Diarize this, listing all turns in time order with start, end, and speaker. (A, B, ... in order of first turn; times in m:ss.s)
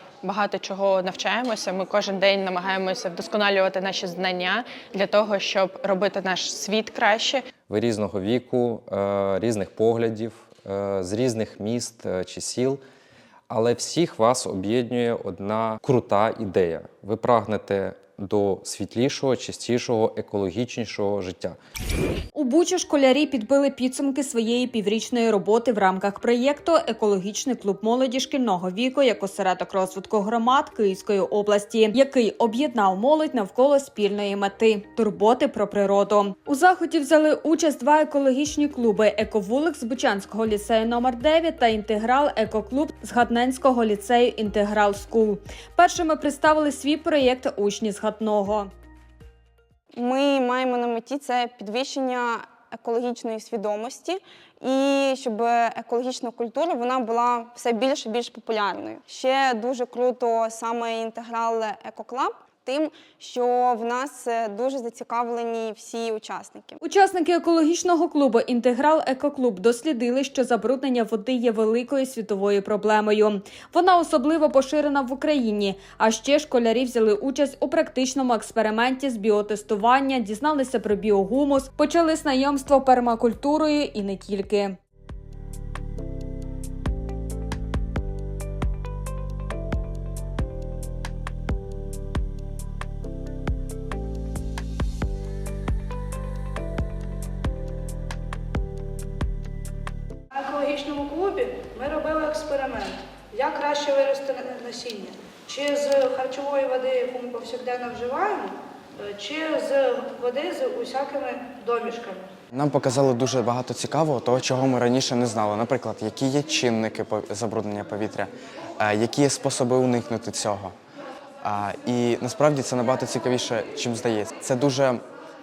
0:00.2-0:07.4 A
0:07.7-0:12.8 B
0:13.5-0:21.6 B
0:22.3-0:48.7 C
0:49.9-1:06.8 D
1:06.8-1:24.8 C
1:40.3-1:52.3 E
1:52.5-2:00.7 F
2:01.4-2:05.0 F